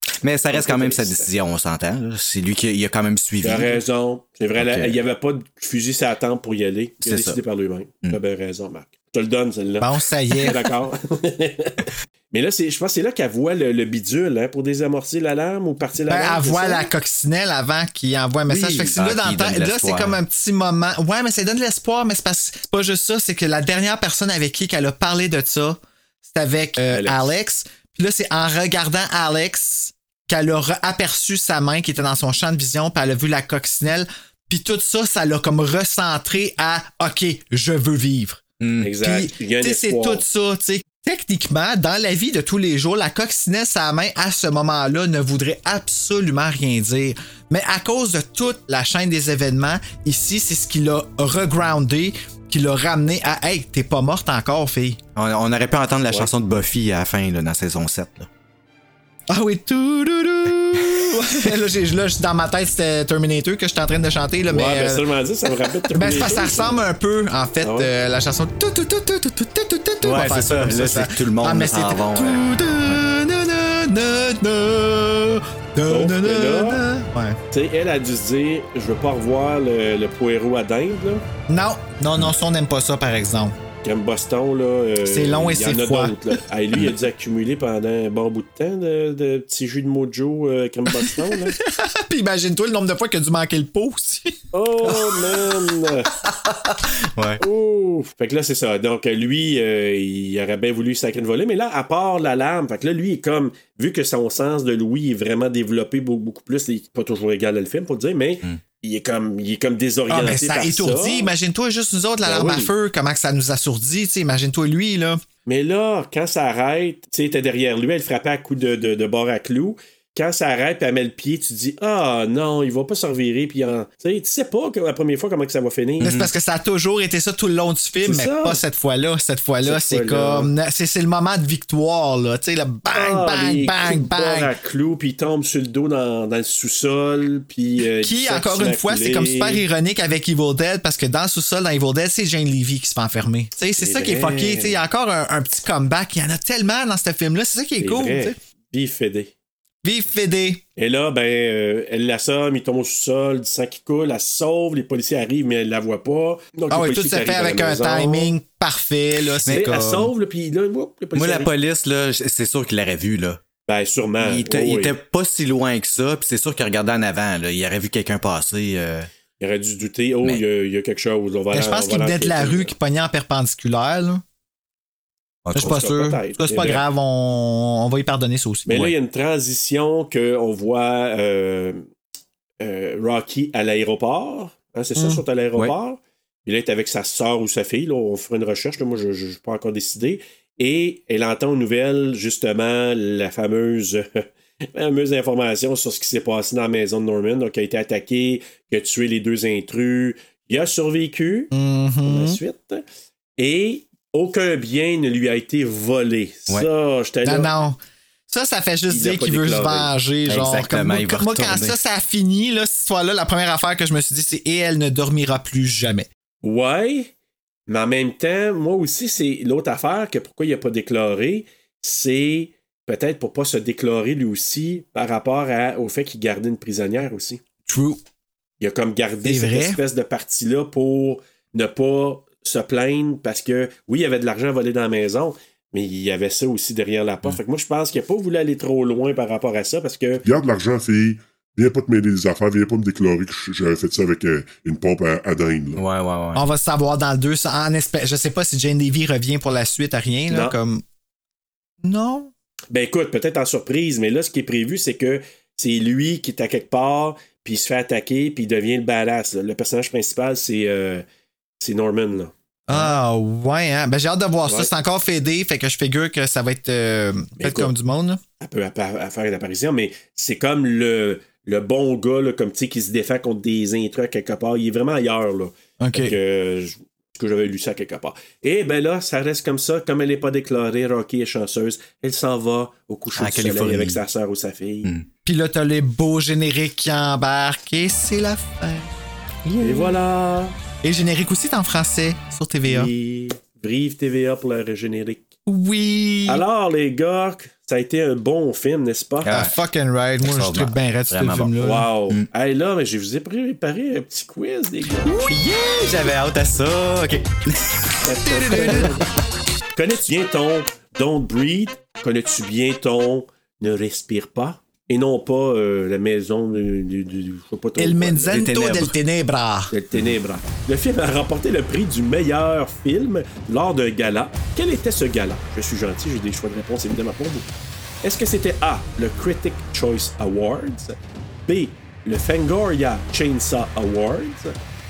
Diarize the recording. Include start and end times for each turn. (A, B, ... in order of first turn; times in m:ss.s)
0:00.2-0:03.8 A
0:00.5-0:01.3 B
0:03.4-0:16.9 B
0:04.6-0:05.0 A
0:07.0-0:07.4 A
0:09.8-0:10.6 C
0:16.1-0:38.4 C
0:18.5-0:18.9 B
0:18.6-0:20.2 A
0:26.9-0:27.3 B
0:38.6-0:38.9 A
0:38.8-0:40.2 B
0:39.0-0:55.0 C
0:55.2-0:58.3 A
0:59.3-1:05.0 C
1:04.5-1:06.8 B
1:05.9-1:17.4 C
1:07.6-1:07.9 B
1:10.0-1:13.0 A
1:15.9-1:16.8 B
1:17.5-1:21.2 B
1:21.5-1:23.6 C
1:23.8-1:31.6 B
1:25.0-1:26.4 C
1:31.0-1:35.9 C
1:34.5-1:36.1 B
1:37.1-1:37.4 A
1:37.4-1:51.3 B
1:50.1-1:55.2 C
1:52.2-1:52.7 B
1:55.4-2:06.1 B
2:06.0-2:06.3 A
2:06.0-2:14.5 C
2:08.0-2:08.6 B
2:09.6-2:10.5 B
2:12.9-2:19.6 B
2:18.0-2:28.4 C
2:23.8-2:24.8 B
2:27.8-2:29.3 B
2:29.8-2:30.6 C
2:30.8-2:38.3 B
2:36.7-2:40.1 C
2:39.5-2:41.5 B
2:41.1-2:43.4 A
2:43.7-2:45.0 B
2:44.2-2:49.1 A
2:49.4-2:52.7 B
2:51.5-2:54.2 C
2:55.4-2:55.8 A
2:55.5-2:58.8 C
2:55.6-2:56.8 B
2:58.7-3:01.8 B
3:02.6-3:21.5 B
3:05.0-3:05.2 C
3:21.5-3:22.4 C
3:22.0-3:22.8 B
3:23.4-3:27.5 B
3:27.2-3:36.1 C
3:28.9-3:29.9 B
3:30.3-3:31.8 A
3:36.4-3:37.1 B
3:37.7-3:47.4 B
3:47.7-3:48.0 C
3:48.6-4:00.2 B
3:49.2-3:49.8 C
4:00.2-4:05.8 D
4:05.8-4:06.4 A
4:06.3-4:10.8 C
4:10.3-4:10.6 B
4:11.8-4:12.3 C
4:12.7-4:21.0 B
4:21.6-4:22.3 B
4:22.7-4:28.2 C
4:27.4-4:27.7 B
4:28.4-4:44.9 B
4:35.8-4:36.2 C
4:43.2-4:44.0 A
4:45.2-4:48.9 C
4:49.4-4:50.0 C
4:49.6-4:50.5 B
4:50.8-4:52.9 C
4:52.7-4:55.3 B
4:55.4-4:56.4 C
4:56.2-4:59.3 B
4:59.2-4:59.5 A
4:59.3-5:01.9 C
5:00.2-5:01.5 A
5:01.6-5:05.1 B
5:05.0-5:05.4 C
5:05.2-5:07.9 A
5:08.0-5:09.1 B
5:08.2-5:09.0 C
5:09.8-5:18.4 B
5:17.8-5:19.7 C
5:18.3-5:18.9 A
5:19.7-5:27.5 B
5:28.0-5:30.9 B
5:31.5-5:34.5 B